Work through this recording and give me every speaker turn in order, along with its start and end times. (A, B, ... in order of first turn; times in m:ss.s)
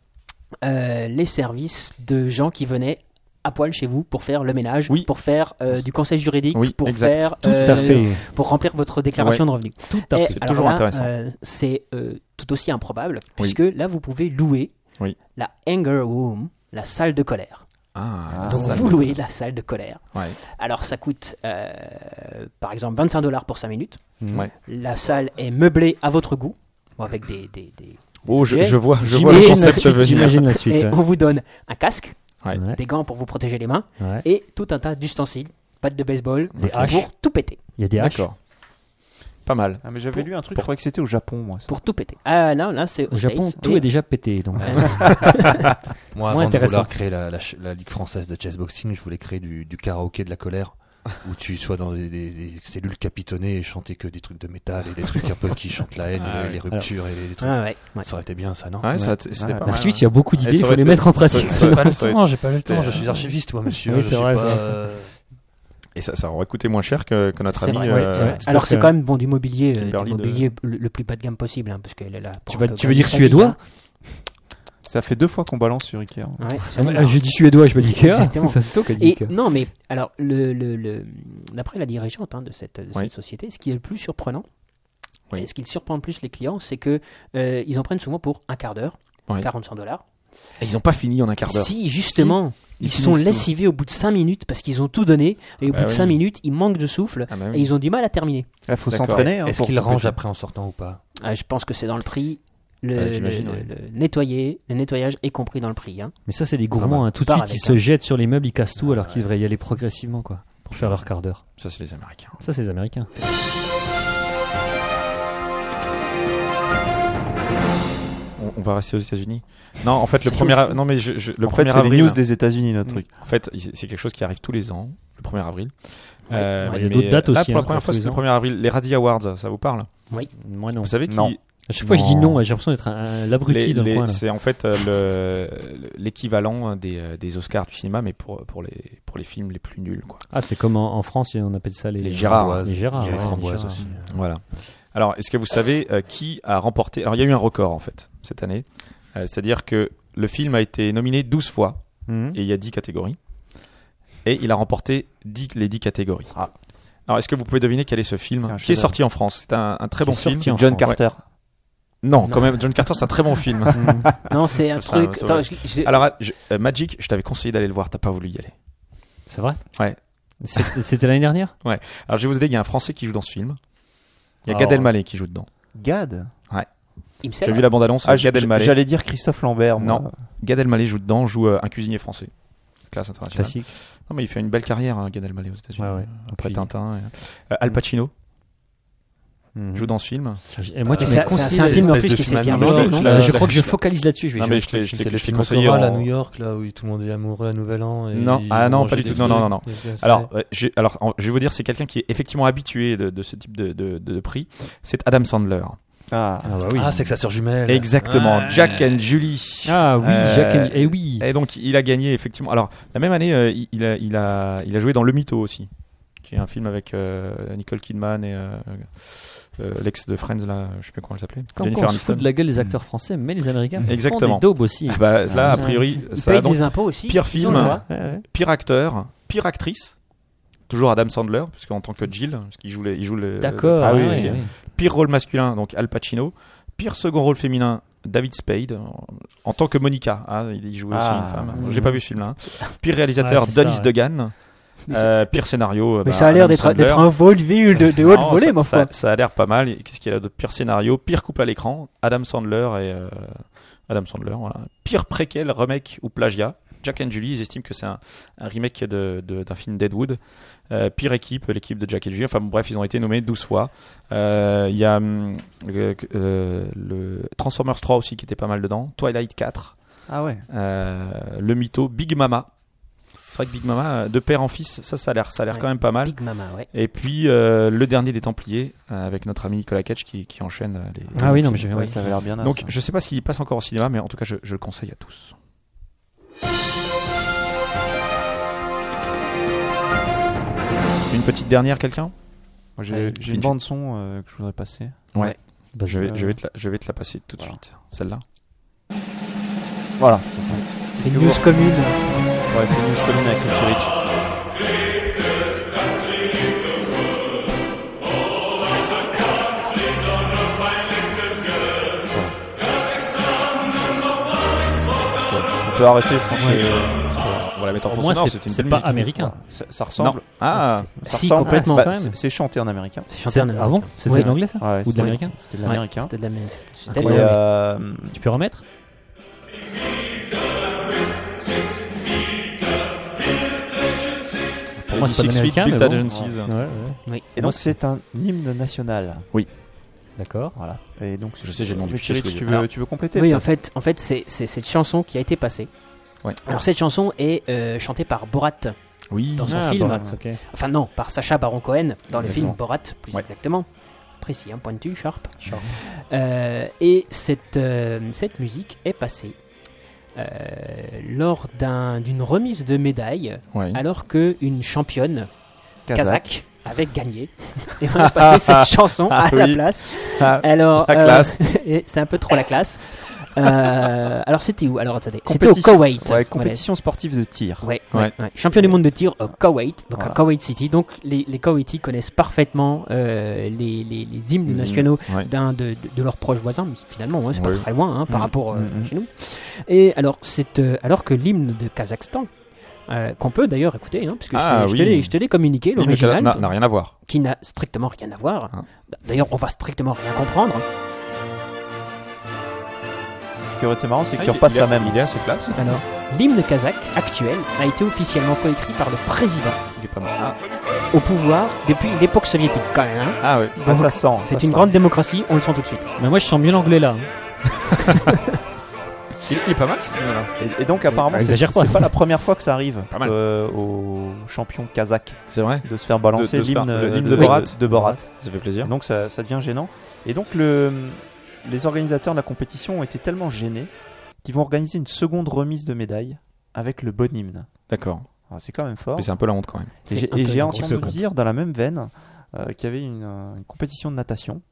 0:00.6-0:17.6 A
0:06.5-0:08.1 B
0:07.4-0:08.2 C
0:09.2-0:09.7 B
0:09.9-0:10.4 C
0:10.3-0:11.1 B
0:17.9-0:19.2 B
0:18.3-0:19.0 D
0:18.4-0:37.6 A
0:24.2-0:24.5 C
0:28.2-0:30.5 B
0:29.0-0:31.0 C
0:32.5-0:32.8 C
0:34.0-0:34.2 C
0:36.6-0:37.0 B
0:36.6-0:37.1 C
0:37.8-0:38.3 C
0:38.0-0:38.4 B
0:39.4-0:40.6 B
0:39.8-0:41.7 D
0:41.7-0:44.0 A
0:43.1-0:45.6 C
0:44.6-0:45.5 E
0:46.1-0:58.9 E
0:46.3-0:46.9 C
0:56.2-0:56.6 B
0:57.4-0:58.1 A
0:58.8-1:03.1 B
0:58.9-1:04.8 C
0:59.4-0:59.7 D
1:01.4-1:05.1 E
1:05.9-1:08.4 B
1:07.5-1:13.6 A
1:07.8-1:08.9 C
1:09.8-1:10.5 B
1:12.5-1:13.6 C
1:14.8-1:16.5 D
1:16.4-1:24.5 A
1:16.7-1:19.3 C
1:25.3-1:30.0 A
1:30.6-1:31.9 B
1:31.4-1:38.5 A
1:32.8-1:33.5 D
1:35.6-1:36.2 B
1:37.3-1:37.7 B
1:38.6-1:40.2 D
1:38.9-1:39.3 B
1:39.2-1:41.0 E
1:41.2-1:46.1 A
1:42.9-1:43.7 B
1:46.2-1:51.6 C
1:46.8-1:47.1 B
1:47.2-1:47.8 A
1:48.8-1:49.3 E
1:50.7-1:52.4 B
1:52.4-1:53.1 C
1:58.4-2:02.2 B
2:00.2-2:00.8 A
2:01.4-2:03.1 D
2:03.1-2:10.0 B
2:06.3-2:06.8 A
2:06.6-2:08.2 C
2:10.4-2:14.2 C
2:10.8-2:12.4 B
2:11.1-2:11.3 D
2:13.4-2:20.3 B
2:20.3-2:23.8 C
2:22.0-2:23.4 B
2:22.2-2:24.2 E
2:24.1-2:33.6 B
2:32.1-2:32.4 C
2:34.2-2:41.0 B
2:38.4-2:39.0 D
2:40.0-2:40.9 C
2:40.4-2:41.2 D
2:42.0-2:48.5 B
2:43.7-2:44.1 C
2:44.3-2:46.1 A
2:49.3-2:51.5 C
2:49.7-2:50.7 B
2:51.6-2:53.6 B
2:54.4-2:55.5 B
2:54.5-2:54.9 C
2:55.7-2:56.3 D
2:56.5-2:58.8 B
2:57.2-2:57.8 A
2:58.0-3:00.1 D
2:59.8-3:08.1 B
3:03.3-3:03.7 C
3:05.8-3:06.7 C
3:09.5-3:15.1 C
3:09.7-3:10.7 B
3:10.8-3:13.4 E
3:11.0-3:13.3 A
3:12.5-3:16.1 B
3:14.9-3:19.7 E
3:18.1-3:25.8 B
3:19.3-3:20.0 C
3:26.1-3:26.6 D
3:26.4-3:27.0 C
3:26.7-3:29.0 E
3:27.7-3:42.3 B
3:29.6-3:31.2 C
3:41.6-3:45.8 C
3:43.9-3:50.0 B
3:45.3-3:45.6 D
3:45.8-3:47.9 A
3:47.4-3:48.2 C
3:50.7-4:32.5 B
3:53.4-3:54.5 C
3:53.8-3:54.4 D
4:00.9-4:02.0 D
4:01.5-4:02.0 C
4:03.2-4:03.9 C
4:06.0-4:08.9 A
4:30.1-4:30.4 D
4:33.3-4:36.2 B
4:35.5-4:36.7 A
4:36.7-4:45.3 B
4:41.1-4:42.1 C
4:41.2-4:42.7 D
4:51.1-4:52.1 B
4:52.8-4:55.1 D
4:52.9-4:53.1 A
4:53.2-4:53.5 B
4:55.1-4:58.2 B
4:55.7-4:56.1 C
4:56.0-4:56.4 D
5:00.0-5:01.8 D
5:01.0-5:02.3 A
5:02.5-5:04.0 D
5:12.0-5:12.4 D
5:15.2-5:17.1 D
5:16.4-5:16.6 C
5:17.1-5:19.1 B
5:17.8-5:19.3 C
5:18.8-5:23.1 D
5:20.0-5:21.0 B
5:21.0-5:21.9 A
5:21.4-5:22.2 C
5:23.1-5:27.4 A
5:23.2-5:25.3 C
5:24.1-5:26.1 D
5:26.8-5:28.2 D
5:26.9-5:28.6 C
5:34.8-5:36.6 B
5:34.9-5:37.7 C
5:36.0-5:36.3 D
5:37.0-5:37.3 A
5:37.3-5:39.3 D
5:40.2-5:40.5 C
5:40.5-5:43.4 D
5:41.4-5:42.7 B
5:43.1-5:45.7 A
5:46.4-5:48.7 A
5:49.1-5:49.6 B
5:49.3-5:53.7 A
5:49.4-5:50.4 C
5:52.1-5:52.6 B
5:54.2-5:59.4 A
5:55.4-5:55.7 B
6:00.1-6:05.3 A
6:03.5-6:03.8 B
6:05.9-6:06.2 D
6:05.9-6:16.6 A
6:07.9-6:11.4 B
6:15.2-6:17.7 D
6:17.6-6:32.3 A
6:17.9-6:18.2 B
6:19.9-6:20.2 D
6:24.4-6:25.3 B
6:27.3-6:28.3 B
6:28.5-6:28.9 D
6:32.9-6:40.6 A
6:34.3-6:35.1 B
6:35.7-6:36.9 B
6:43.4-6:45.0 D
6:44.2-6:45.8 B
6:45.6-6:49.6 A
6:49.8-6:50.4 B
6:50.9-6:55.9 A
6:53.2-6:53.6 B
6:53.6-6:54.7 D
6:56.0-6:57.1 C
6:59.2-7:00.3 B
7:00.4-7:17.6 D
7:00.9-7:01.9 C
7:05.3-7:08.7 B
7:07.2-7:08.0 C
7:17.7-7:18.1 B
7:18.3-7:19.3 D
7:18.9-7:19.8 B
7:19.8-7:24.4 D
7:19.9-7:21.0 A
7:20.2-7:21.0 C